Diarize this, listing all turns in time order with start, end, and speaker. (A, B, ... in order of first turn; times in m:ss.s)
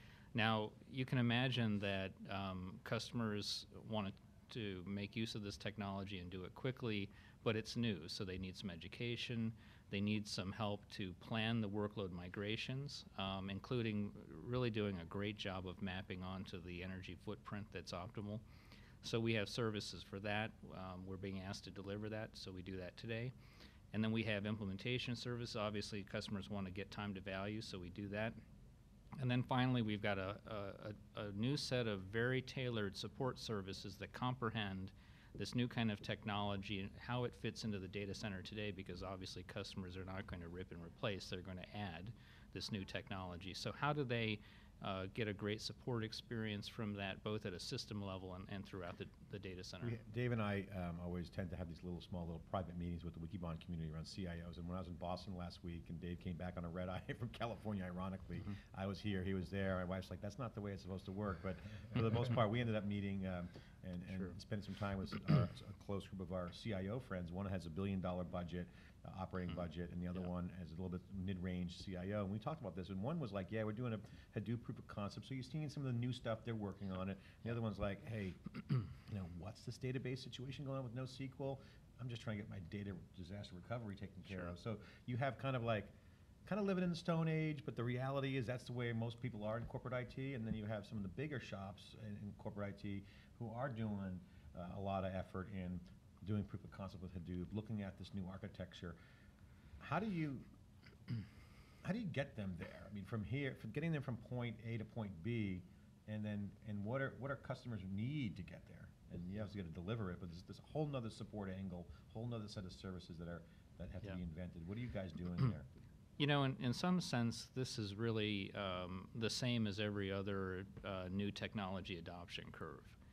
0:00.3-0:18.4 A
0:19.0-0:23.3 A
0:23.9-0:28.4 A
0:29.2-0:50.0 A
0:49.8-1:18.4 B
1:04.1-1:04.4 A
1:19.1-1:25.9 B
1:24.3-1:24.5 A
1:26.4-1:39.0 B
1:39.8-1:40.5 B
1:41.8-1:55.6 B
1:56.2-2:03.0 A